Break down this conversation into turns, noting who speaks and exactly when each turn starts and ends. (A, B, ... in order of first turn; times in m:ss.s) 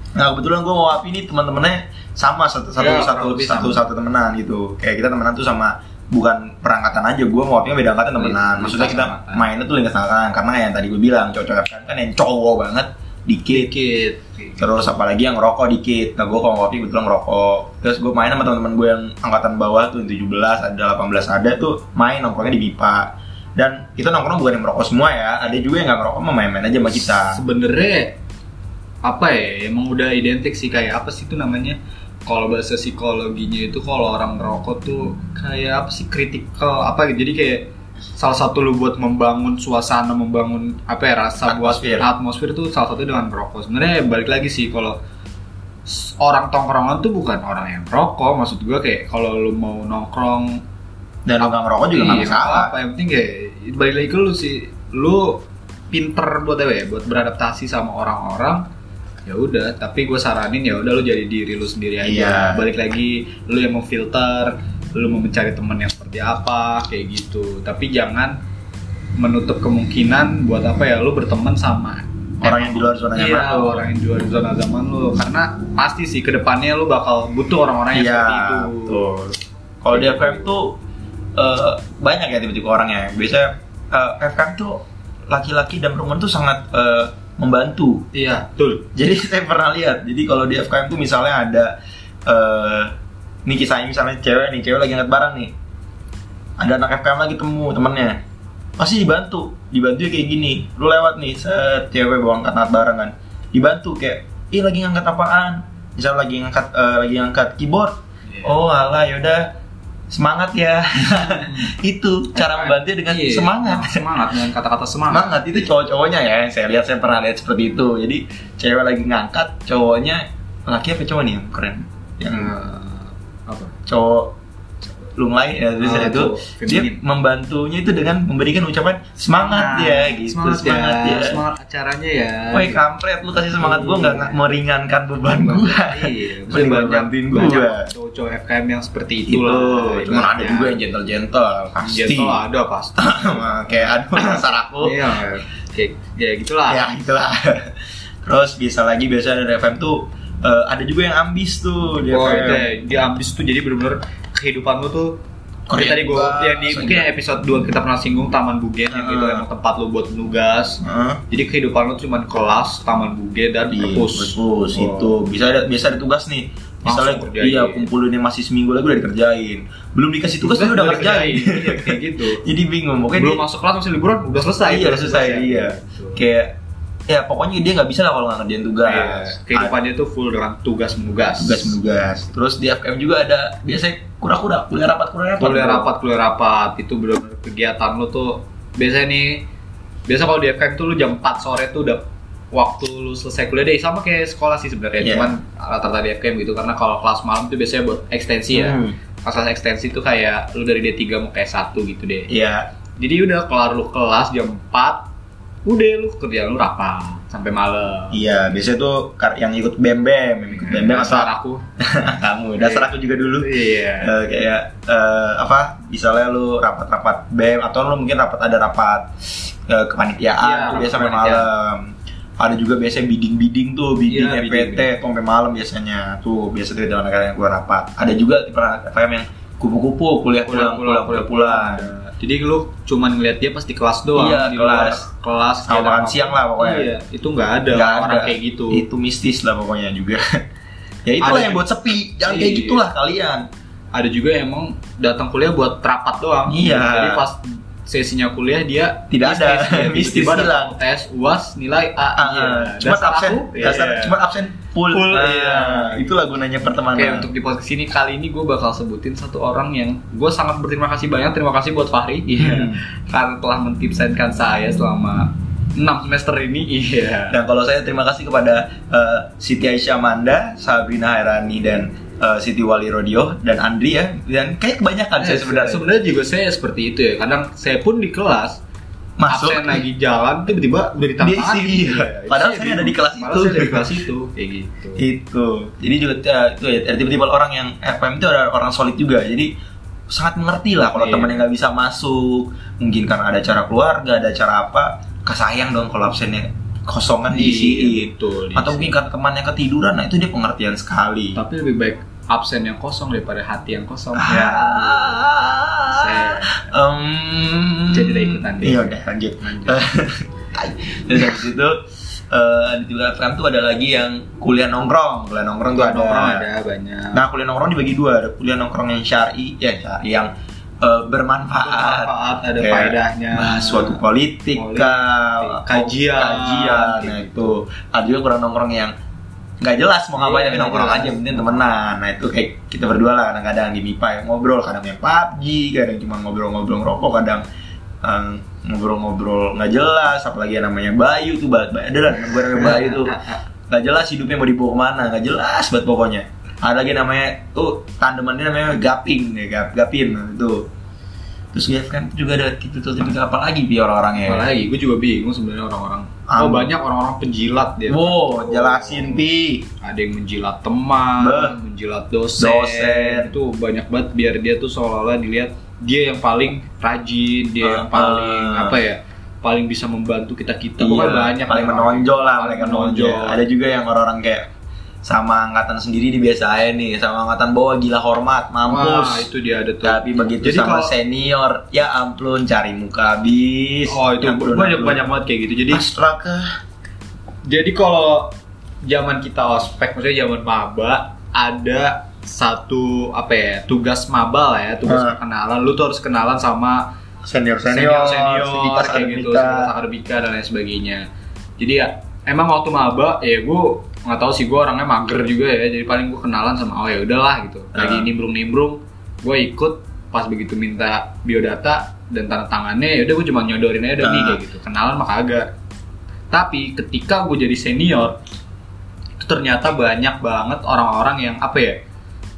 0:00.2-0:13.7 A
0:02.8-0:03.8 B
0:08.2-0:09.5 B
0:13.5-0:14.8 B
0:14.6-0:27.4 A
0:27.1-0:28.2 B
0:29.0-0:45.0 B
0:41.4-0:42.1 A
0:45.9-0:50.6 B
0:51.3-0:52.7 A
0:51.4-0:58.7 B
0:59.2-1:08.4 B
1:02.0-1:02.7 A
1:09.2-1:19.0 B
1:12.4-1:13.8 A
1:17.9-1:20.8 A
1:19.9-1:20.5 B
1:21.4-1:28.1 A
1:28.1-1:28.9 B
1:29.0-1:31.7 A
1:32.3-1:32.9 A
1:33.4-1:35.5 A
1:36.6-1:38.2 A
1:38.8-1:49.5 A
1:50.1-1:54.1 A
1:51.1-1:51.7 B
1:52.4-1:55.7 B
1:55.1-2:02.5 A
2:02.3-2:03.8 B
2:03.9-2:04.4 A
2:05.1-2:11.4 A
2:05.8-2:07.0 B
2:09.3-2:12.8 B
2:12.5-2:17.9 A
2:13.6-2:14.4 B
2:15.4-2:20.8 B
2:19.3-2:22.4 A
2:21.8-2:26.9 B
2:23.0-2:25.0 A
2:26.7-2:32.7 A
2:32.1-2:35.2 B
2:35.7-2:37.1 A
2:35.7-2:45.2 B
2:38.9-2:39.4 A
2:40.8-2:41.2 A
2:43.7-2:53.4 A
2:46.8-2:47.9 B
2:50.4-2:52.4 B
2:53.1-2:56.2 B
2:54.6-2:56.6 A
2:57.1-2:59.8 A
2:58.8-3:01.8 B
3:01.4-3:05.9 A
3:05.4-3:09.5 B
3:10.1-3:22.3 B
3:15.0-3:15.4 A
3:18.5-3:19.0 A
3:22.3-3:22.7 A
3:23.0-3:25.1 B
3:25.6-3:28.3 B
3:28.1-3:51.9 A
3:30.5-3:31.6 B
3:32.6-3:34.2 B
3:40.4-3:41.5 B
3:44.1-3:44.9 B
3:50.4-3:58.8 B
3:54.2-3:55.0 A
3:55.6-3:56.9 A
3:57.7-4:00.2 A
4:01.1-4:03.5 A
4:01.2-4:01.6 B
4:02.2-4:02.8 B
4:03.9-4:14.2 B
4:06.5-4:07.2 A
4:09.1-4:10.7 A
4:12.2-4:17.3 A
4:14.9-4:16.1 B
4:16.9-4:27.4 B
4:22.4-4:22.8 A
4:27.3-4:35.9 A
4:35.2-4:38.6 B
4:39.2-4:39.8 A
4:39.3-4:45.0 B
4:41.2-4:44.0 A
4:45.0-4:49.5 A
4:50.1-5:01.4 A
4:50.9-4:51.4 B
4:57.3-4:58.9 B
5:01.4-5:05.2 B
5:04.2-5:16.5 A
5:05.9-5:06.6 B
5:07.9-5:09.8 B
5:15.7-5:17.2 B
5:17.1-5:28.9 A
5:21.6-5:24.0 B
5:24.5-5:27.6 B
5:29.6-5:37.4 A
5:30.2-5:31.5 B
5:38.0-5:50.7 A
5:42.5-5:43.4 B
5:51.5-5:54.5 A
5:54.2-5:59.2 B
5:56.3-5:56.7 A
5:57.9-5:59.7 A
5:59.8-6:13.4 B
6:01.2-6:01.6 A
6:02.4-6:03.3 A
6:07.6-6:08.8 A
6:10.8-6:14.5 A
6:15.0-6:19.3 A
6:18.7-6:20.9 B
6:19.8-6:25.0 A
6:23.9-6:25.9 B
6:25.7-6:26.6 A
6:27.5-6:36.9 B
6:34.9-6:35.2 A
6:37.2-6:39.7 A
6:37.7-6:41.1 B
6:41.6-6:55.5 B
6:47.7-6:48.1 A
6:54.0-6:54.4 A
6:56.3-6:58.2 B
6:59.2-7:01.8 B